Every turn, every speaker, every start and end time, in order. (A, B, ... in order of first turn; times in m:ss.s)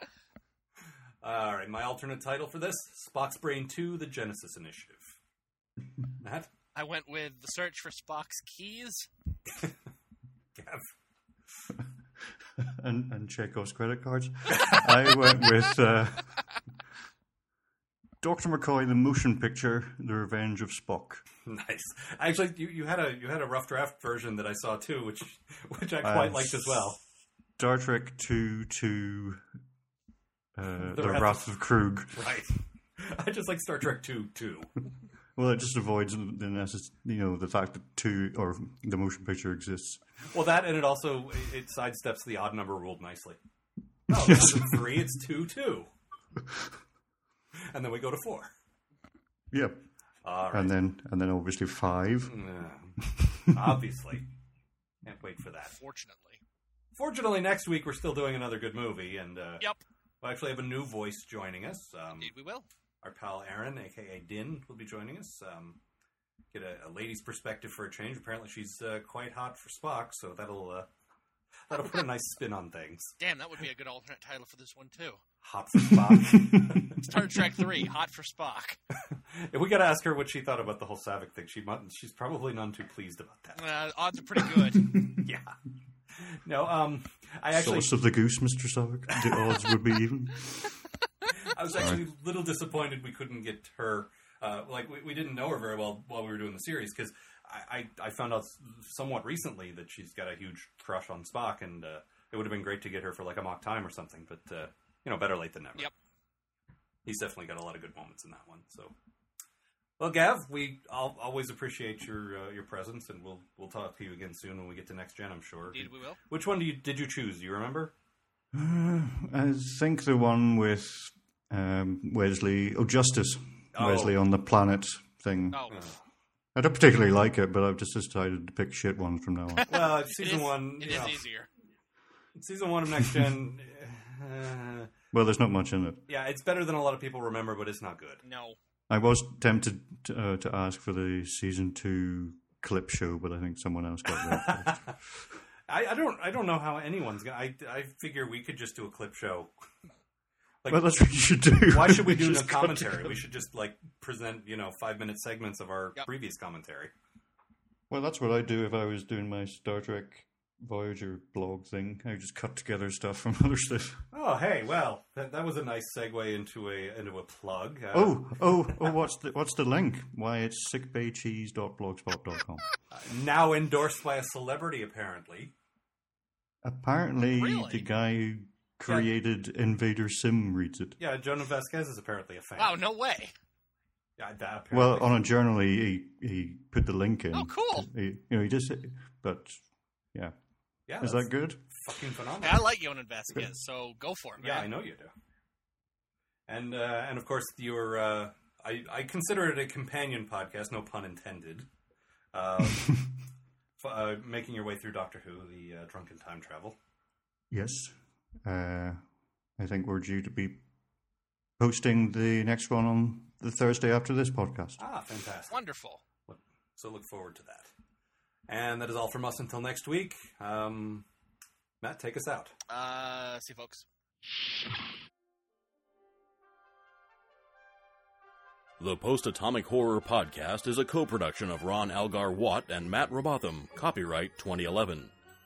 0:01.2-0:05.1 A
0:06.2-0:06.5 A
0:06.8-0:09.1 B
0:10.6-0:10.9 A
0:12.6-0:16.4 C
0:14.5-0:14.8 A
0:18.2-0:21.2 C
0:21.5-0:27.0 A
0:26.0-0:26.9 C
0:27.6-0:29.4 C
0:30.6-0:32.4 C
0:30.9-0:31.5 A
0:32.1-0:34.7 A
0:35.4-0:40.0 C
0:40.3-0:43.4 A
0:44.1-0:45.9 A
0:44.1-0:45.0 C
0:47.7-0:48.5 A
0:49.5-0:49.9 C
0:50.2-0:50.8 A
0:50.5-0:52.4 C
0:52.2-0:54.3 A
0:55.0-0:55.7 A
0:55.7-0:56.4 B
0:57.0-0:59.6 A
1:00.2-1:02.3 A
1:02.2-1:02.7 B
1:03.0-1:05.8 A
1:06.5-1:10.9 A
1:11.7-1:13.2 A
1:13.2-1:15.2 B
1:15.4-1:17.2 A
1:17.0-1:18.8 B
1:19.3-1:23.6 A
1:23.6-1:24.9 B
1:25.2-1:25.5 A
1:26.2-1:27.9 A
1:27.5-1:30.7 C
1:29.1-1:29.6 A
1:31.4-1:45.9 A
1:31.8-1:32.0 C
1:47.0-1:48.9 A
1:50.0-1:57.9 A
1:55.7-1:56.2 B
1:58.5-2:05.7 C
2:03.8-2:04.2 A
2:05.5-2:05.8 B
2:05.7-2:06.0 A
2:06.6-2:09.7 C
2:09.6-2:11.5 B
2:09.7-2:11.2 A
2:12.4-2:14.9 A
2:15.1-2:16.0 C
2:16.1-2:18.2 A
2:18.2-2:18.6 B
2:18.9-2:24.9 C
2:24.3-2:24.9 A
2:25.7-2:29.5 A
2:30.7-2:33.2 C
2:31.7-2:36.9 A
2:37.9-2:44.0 C
2:44.1-2:48.9 A
2:47.9-2:52.6 C
2:52.9-2:55.5 A
2:56.6-3:01.0 C
2:57.3-2:57.8 B
3:01.0-3:02.8 A
3:02.6-3:03.3 B
3:04.2-3:05.2 A
3:04.7-3:09.6 C
3:07.3-3:07.9 B
3:10.9-3:12.7 A
3:11.0-3:11.6 C
3:12.4-3:14.7 B
3:14.4-3:15.1 A
3:16.5-3:21.7 A
3:22.3-3:23.0 A
3:23.8-3:26.8 A
3:27.5-3:29.0 C
3:29.6-3:30.6 C
3:31.6-3:34.8 C
3:34.8-3:35.5 A
3:35.5-3:36.0 B
3:36.3-3:37.7 A
3:38.5-3:41.0 A
3:41.8-3:42.6 A
3:42.7-3:43.9 B
3:48.8-3:55.1 D